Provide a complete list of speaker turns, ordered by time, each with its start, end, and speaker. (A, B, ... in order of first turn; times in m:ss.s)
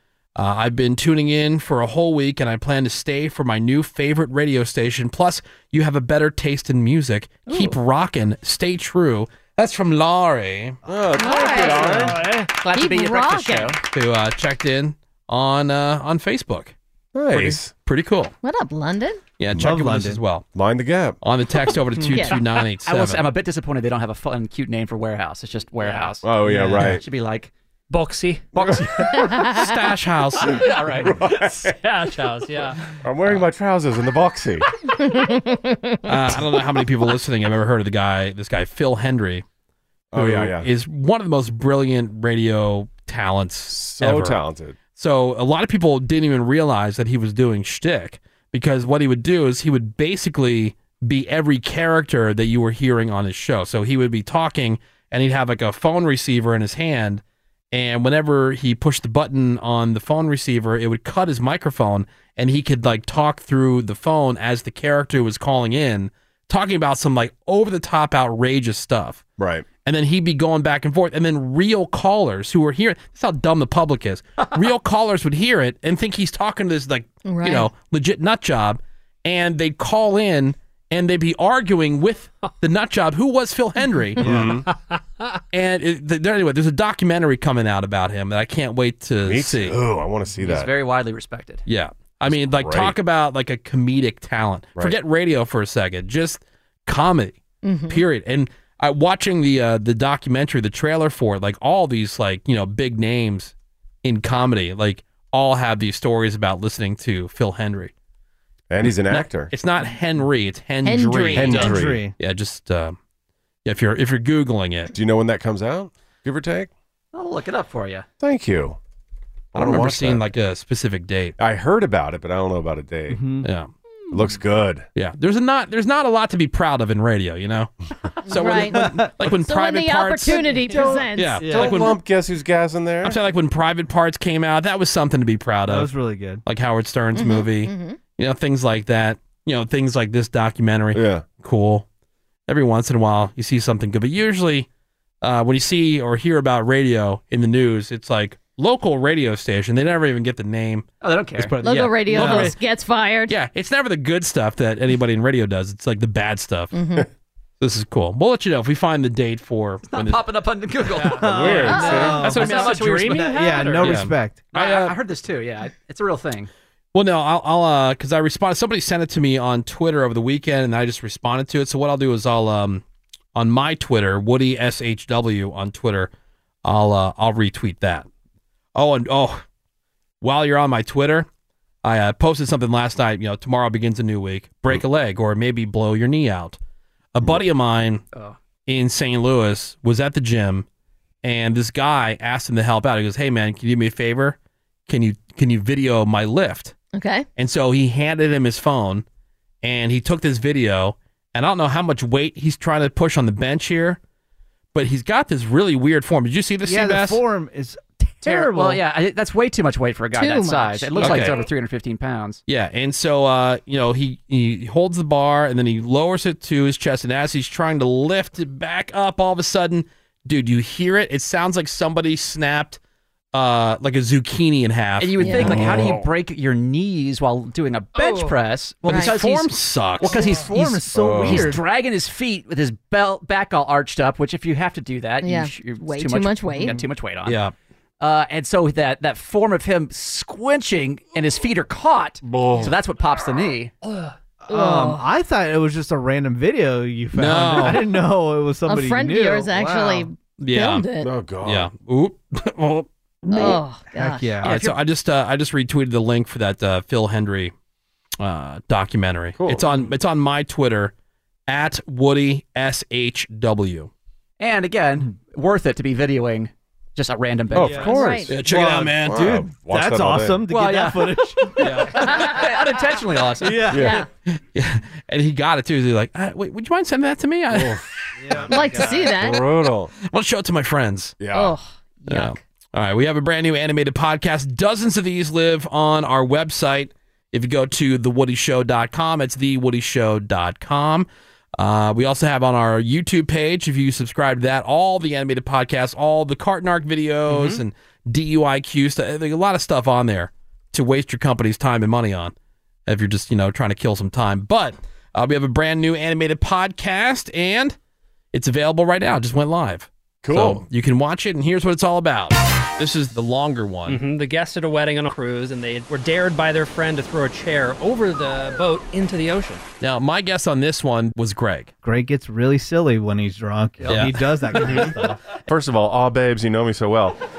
0:00.4-0:10.8 A
0:10.9-0:12.2 B
0:11.2-0:11.9 C
0:11.5-0:12.5 D
0:11.5-0:12.1 E
0:12.6-0:13.8 E
0:12.7-0:13.8 C
0:13.9-0:16.8 A
0:17.1-0:17.7 B
0:17.3-0:18.3 A
0:18.4-0:19.2 C
0:19.4-0:20.4 A
0:19.6-0:20.2 F
0:20.6-0:21.2 B
0:21.2-0:23.2 A
0:22.0-0:22.4 C
0:22.8-0:27.5 E
0:25.8-0:26.2 D
0:26.2-0:27.0 B
0:26.5-0:27.0 F
0:27.9-0:28.5 D
0:28.5-0:29.5 E
0:29.1-0:29.8 C
0:29.4-0:30.6 A
0:30.5-0:31.2 E
0:30.6-0:32.8 D
0:31.0-0:31.8 B
0:33.0-0:34.7 B
0:35.0-0:36.4 C
0:36.1-0:39.4 A
0:40.1-0:40.7 B
0:40.1-0:44.4 A
0:43.7-0:44.8 B
0:45.0-1:09.2 A
1:09.4-1:09.7 B
1:09.8-1:24.2 A
1:17.3-1:17.7 C
1:24.2-1:24.6 F
1:24.2-1:24.7 B
1:24.9-1:25.4 D
1:25.5-1:29.8 A
1:29.2-1:30.7 B
1:30.4-1:31.6 E
1:31.7-1:47.9 A
1:32.3-1:33.0 B
1:37.6-1:38.0 C
1:48.7-1:49.5 B
1:49.1-1:53.0 A
1:50.8-1:51.7 C
1:51.4-1:52.0 B
1:51.5-1:52.1 F
1:53.6-1:54.9 A
1:54.9-1:56.7 B
1:57.1-1:58.1 E
1:58.2-1:58.8 B
1:59.5-2:00.3 B
1:59.6-2:01.4 A
2:01.4-2:03.2 B
2:03.1-2:03.5 F
2:03.4-2:03.7 A
2:04.1-2:04.9 B
2:05.0-2:07.7 A
2:08.2-2:12.0 A
2:08.3-2:11.5 C
2:08.4-2:09.1 F
2:10.5-2:13.2 B
2:10.7-2:11.9 F
2:13.0-2:15.9 A
2:15.7-2:16.4 F
2:16.4-2:21.8 A
2:17.2-2:18.0 C
2:20.9-2:21.3 B
2:22.5-2:24.7 A
2:25.2-2:30.9 A
2:31.0-2:32.5 E
2:31.4-2:32.6 A
2:31.6-2:33.4 C
2:32.1-2:32.5 F
2:33.3-2:36.7 A
2:36.7-2:37.1 C
2:37.6-2:40.2 A
2:39.8-2:44.0 E
2:40.9-2:43.9 D
2:41.2-2:44.4 F
2:41.2-2:42.2 B
2:41.7-2:42.1 C
2:42.2-2:43.2 A
2:43.8-2:45.0 A
2:44.5-2:46.5 E
2:46.9-2:52.8 A
2:53.4-2:56.1 A
2:56.6-2:58.1 A
2:58.8-2:59.4 A
3:00.2-3:01.3 A
3:01.8-3:06.6 A
3:07.1-3:08.0 A
3:08.7-3:10.7 A
3:11.2-3:16.8 A
3:16.9-3:17.2 C
3:17.4-3:19.0 A
3:19.6-3:24.0 A
3:24.7-3:27.2 A
3:26.6-3:28.8 F
3:28.2-3:32.4 E
3:30.1-3:31.3 C
3:31.0-3:31.4 A
3:32.5-3:42.8 A
3:43.3-3:45.6 A
3:45.0-3:57.4 E
3:45.2-3:45.6 C
3:45.4-3:46.1 B
3:48.0-3:48.4 D
3:48.9-3:50.4 A
3:48.9-3:49.2 C
3:50.0-3:51.6 F
3:50.9-3:51.6 B
3:55.2-3:56.8 C
3:57.2-3:57.5 A
3:58.0-4:03.7 E
4:02.2-4:02.8 B
4:03.8-4:04.2 D
4:04.5-4:10.1 F
4:04.5-4:05.0 C
4:07.2-4:08.0 A
4:08.7-4:11.1 C
4:10.4-4:10.9 A
4:11.0-4:11.7 B
4:11.4-4:13.6 A
4:13.3-4:14.4 C
4:13.9-4:14.5 F
4:14.4-4:14.8 E
4:14.4-4:17.5 A
4:18.2-4:20.9 A
4:19.4-4:19.7 B
4:21.5-4:23.9 A
4:24.4-4:28.0 E
4:27.5-4:28.4 B
4:27.6-4:31.9 F
4:27.9-4:28.3 C
4:28.3-4:29.4 A
4:29.0-4:30.4 B
4:30.5-4:33.8 E
4:31.6-4:32.5 A
4:32.1-4:32.4 C
4:33.4-4:34.0 F
4:33.7-4:34.1 C
4:33.7-4:34.1 B
4:34.3-4:37.8 A
4:37.5-4:37.8 B
4:38.2-4:39.2 F
4:38.4-4:39.9 B
4:38.5-4:39.4 C
4:40.0-4:41.2 A
4:41.2-4:41.6 B
4:41.3-4:42.3 C
4:42.1-5:02.3 A
5:02.9-5:07.8 A
5:08.3-5:14.0 A
5:10.2-5:10.6 B
5:13.9-5:19.6 D
5:19.8-5:21.7 A
5:21.8-5:25.2 F
5:23.9-5:24.3 A
5:24.6-5:24.9 D
5:24.6-5:24.8 B
5:25.5-5:27.2 B